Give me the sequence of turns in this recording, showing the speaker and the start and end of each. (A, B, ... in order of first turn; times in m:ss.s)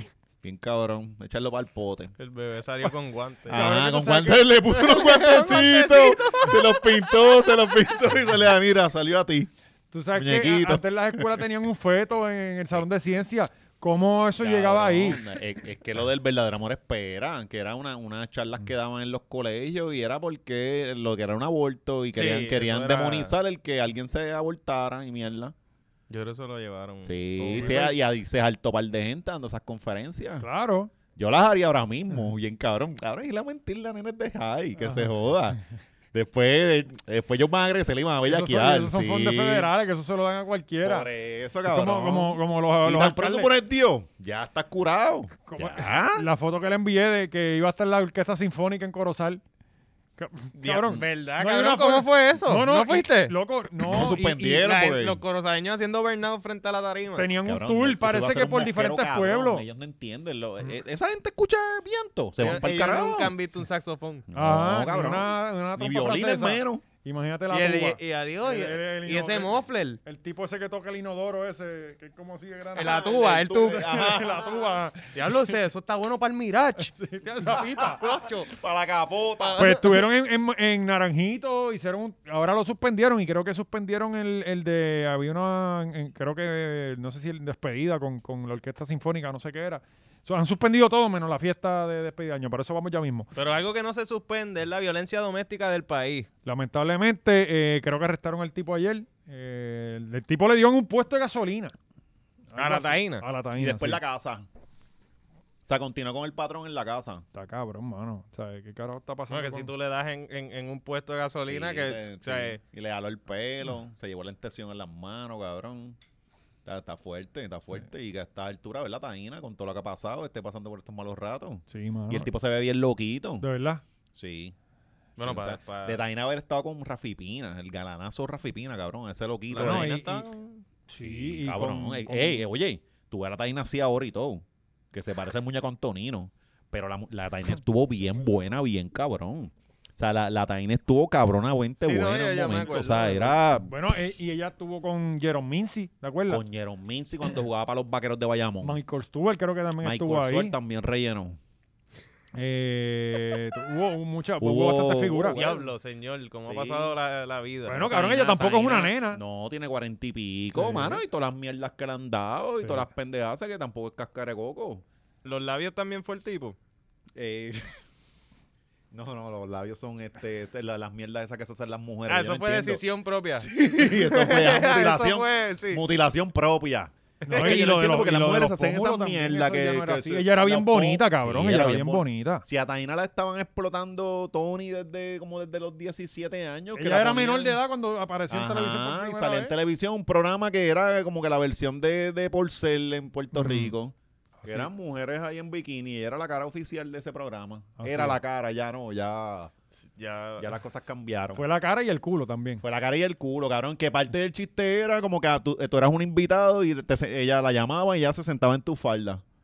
0:00.4-0:02.1 A
0:02.2-0:03.6 B
0:03.5-0:09.5 A
0:03.5-0:04.5 C
0:04.7-0:07.5 B
0:09.9-0:15.2 C
0:10.1-0:11.4 A
0:14.4-0:25.5 A
0:22.1-0:23.3 B
0:26.1-0:27.8 B
0:27.0-0:30.4 A
0:27.5-0:27.9 C
0:30.4-0:30.9 C
0:31.2-0:35.6 A
0:34.8-0:35.1 C
0:36.1-0:39.7 A
0:38.2-0:41.1 C
0:40.8-0:46.3 A
0:41.6-0:43.5 C
0:45.4-0:49.4 C
0:50.2-0:54.6 C
0:50.6-0:53.3 B
0:53.8-0:55.2 A
0:54.6-0:57.3 B
0:57.2-0:59.6 C
0:57.4-1:03.4 A
1:02.4-1:04.2 B
1:04.3-1:06.8 A
1:04.3-1:09.5 C
1:07.5-1:10.0 B
1:10.0-1:15.5 C
1:12.7-1:13.9 B
1:12.8-1:14.7 A
1:15.1-1:16.9 B
1:16.8-1:18.0 C
1:17.8-1:18.5 B
1:18.4-1:19.6 A
1:19.4-1:20.0 B
1:19.6-1:33.3 C
1:33.3-1:36.3 B
1:36.4-1:41.7 C
1:42.5-1:44.0 C
1:42.6-1:43.2 B
1:43.5-1:44.4 A
1:45.6-1:47.2 A
1:47.3-1:49.7 C
1:49.3-1:52.6 B
1:51.4-1:56.0 A
1:56.6-2:03.4 A
2:01.7-2:02.3 C
2:03.4-2:03.8 C
2:04.1-2:04.5 A
2:05.2-2:06.0 B
2:05.2-2:10.0 A
2:09.5-2:10.6 B
2:09.6-2:10.2 C
2:10.9-2:12.4 C
2:11.0-2:23.7 A
2:21.8-2:23.4 B
2:23.6-2:26.4 C
2:26.3-2:28.8 A
2:28.6-2:30.5 C
2:29.8-2:31.4 A
2:32.3-2:35.4 C
2:34.4-2:35.7 A
2:35.3-2:38.9 B
2:36.4-2:36.9 A
2:37.7-2:39.2 C
2:38.9-2:44.8 A
2:40.5-2:41.0 C
2:42.6-2:42.9 C
2:45.2-2:46.6 B
2:47.2-2:47.7 A
2:48.9-2:52.8 A
2:52.1-2:55.8 B
2:53.4-3:07.6 A
2:57.2-3:02.4 C
2:57.3-2:57.6 B
3:06.7-3:09.5 C
3:08.3-3:19.5 A
3:13.3-3:13.7 C
3:14.4-3:14.7 C
3:17.8-3:18.2 C
3:19.8-3:20.5 B
3:20.4-3:21.4 A
3:21.3-3:22.6 C
3:22.6-3:29.2 A